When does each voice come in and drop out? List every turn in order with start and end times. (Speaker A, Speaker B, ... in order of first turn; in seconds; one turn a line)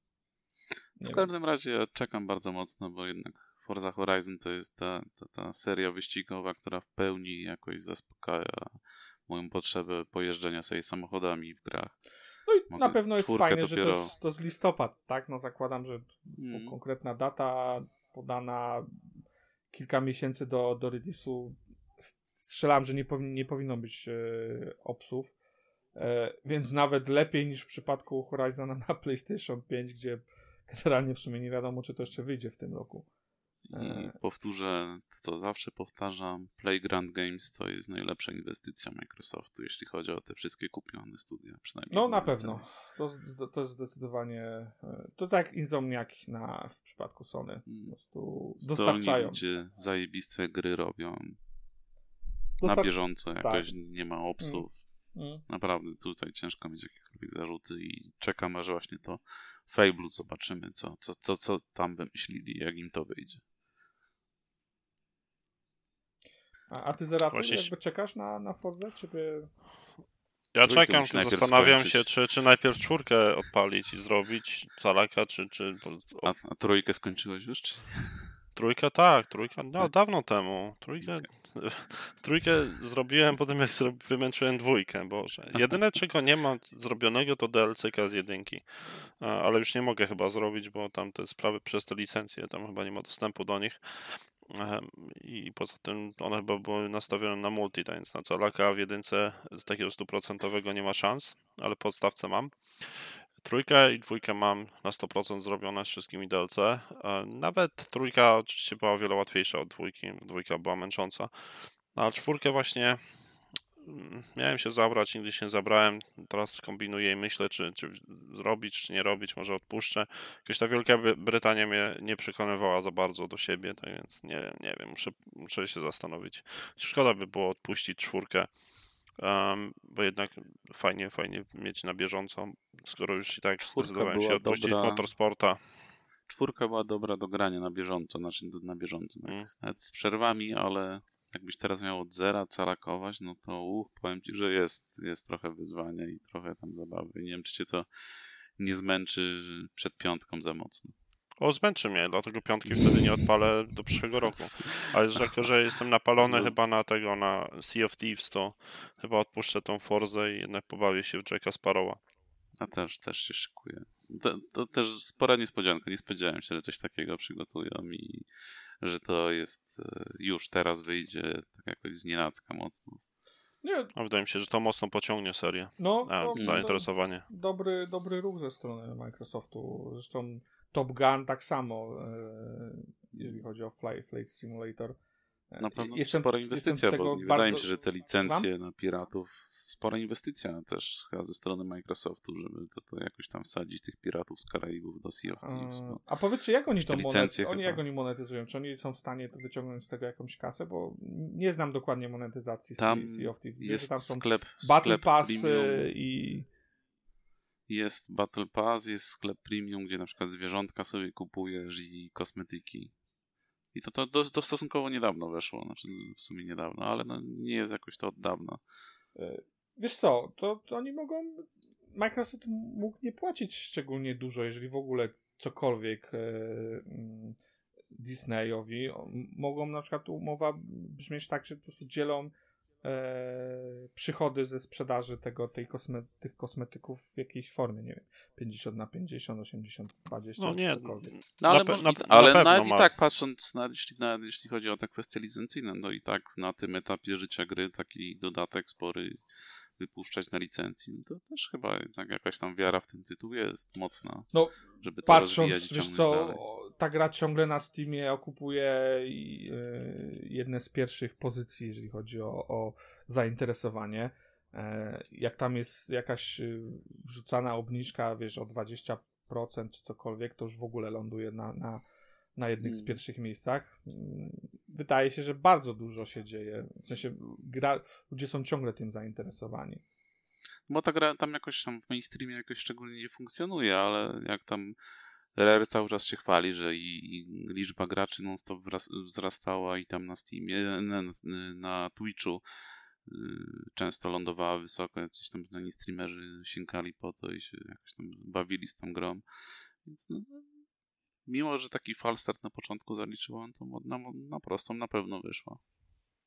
Speaker A: 1.0-1.3
Speaker B: 1.0-12.0
Speaker A: 12.5-18.9
Speaker B: 12.7-14.1
Speaker B: 16.4-16.8
Speaker A: 19.7-25.3
Speaker A: 25.9-33.1
Speaker B: 33.6-42.6
Speaker A: 33.7-34.1
Speaker A: 41.9-49.4
Speaker B: 47.7-47.9
Speaker B: 48.6-51.4
Speaker A: 52.6-53.7
Speaker B: 52.6-54.7
Speaker A: 54.4-54.6
Speaker A: 55.1-55.4
Speaker B: 55.5-63.4
Speaker A: 66.7-69.5
Speaker C: 67.3-67.7
Speaker C: 70.5-76.3
Speaker B: 70.6-72.1
Speaker B: 76.2-78.3
Speaker C: 78.5-128.5
Speaker B: 81.0-81.2
Speaker C: 129.1-135.8
Speaker B: 133.6-135.1
Speaker B: 136.3-147.9
Speaker B: 148.6-150.9
Speaker C: 151.4-162.0
Speaker B: 156.2-156.5
Speaker B: 162.6-168.3
Speaker B: 168.8-173.0
Speaker A: 173.6-173.9
Speaker C: 173.9-177.2
Speaker A: 175.8-185.0
Speaker B: 176.3-176.6
Speaker A: 185.5-188.5
Speaker B: 185.6-196.0
Speaker A: 195.4-206.5
Speaker B: 196.8-197.8
Speaker B: 202.8-205.9
Speaker B: 207.7-212.9
Speaker B: 213.7-218.6
Speaker A: 219.2-227.4
Speaker A: 227.9-232.3
Speaker A: 232.8-241.1
Speaker C: 240.4-242.9
Speaker B: 241.4-249.2
Speaker B: 249.8-256.4
Speaker A: 254.3-271.8
Speaker A: 272.4-279.8
Speaker B: 272.6-273.0
Speaker B: 280.7-284.8
Speaker B: 285.4-292.4
Speaker B: 293.0-300.6
Speaker B: 301.2-305.6